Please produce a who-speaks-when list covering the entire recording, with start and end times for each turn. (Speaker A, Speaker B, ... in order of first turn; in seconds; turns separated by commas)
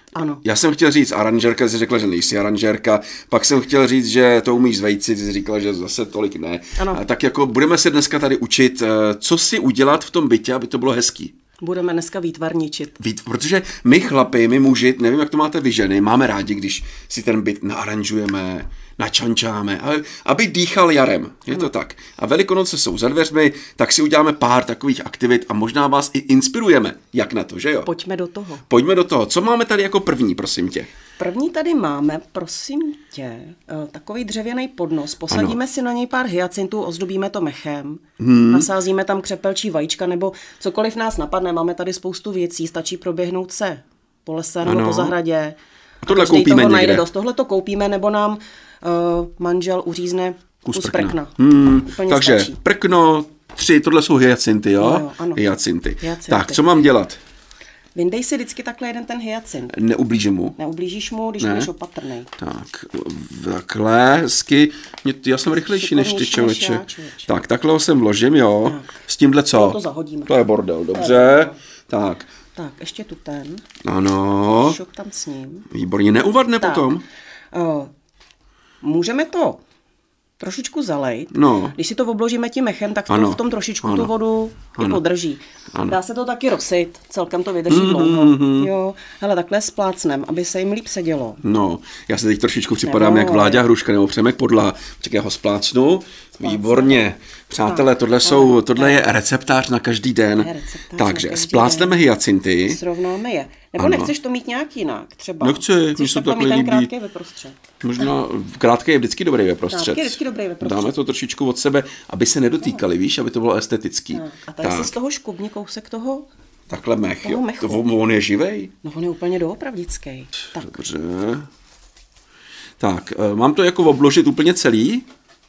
Speaker A: 0.1-0.4, Speaker B: 0.4-11.3, Speaker A: 6.8-7.0, Speaker A: 11.6-13.0, Speaker B: 13.0-27.9, Speaker A: 27.8-28.6, Speaker B: 28.7-30.9, Speaker A: 31.2-52.6, Speaker B: 35.3-35.6, Speaker B: 38.2-38.7, Speaker B: 44.6-45.1, Speaker B: 46.0-47.0, Speaker B: 50.6-57.2, Speaker A: 54.8-55.4, Speaker A: 56.0-56.6, Speaker A: 57.9-59.8, Speaker B: 59.7-60.5, Speaker A: 60.6-62.3, Speaker B: 61.4-61.7, Speaker B: 62.4-72.3, Speaker A: 65.5-67.3, Speaker A: 68.6-69.0, Speaker A: 69.5-70.4, Speaker A: 70.9-71.6, Speaker A: 72.5-73.6, Speaker B: 73.8-74.8, Speaker A: 74.6-75.7, Speaker B: 75.7-77.0, Speaker A: 76.6-76.9, Speaker A: 77.5-77.9, Speaker A: 78.8-79.6, Speaker A: 80.4-91.4, Speaker B: 81.3-81.8, Speaker B: 83.1-84.1, Speaker B: 85.7-86.0, Speaker B: 87.7-88.7, Speaker B: 91.4-102.8, Speaker A: 92.8-93.7, Speaker A: 96.4-99.1, Speaker A: 100.4-102.0, Speaker A: 102.7-107.6, Speaker B: 103.8-104.1, Speaker B: 105.4-106.9, Speaker B: 107.8-114.9, Speaker A: 109.7-110.9, Speaker A: 114.1-116.3, Speaker B: 116.7-118.7, Speaker A: 117.2-117.8, Speaker A: 118.8-120.9, Speaker B: 120.5-121.5, Speaker B: 122.8-125.1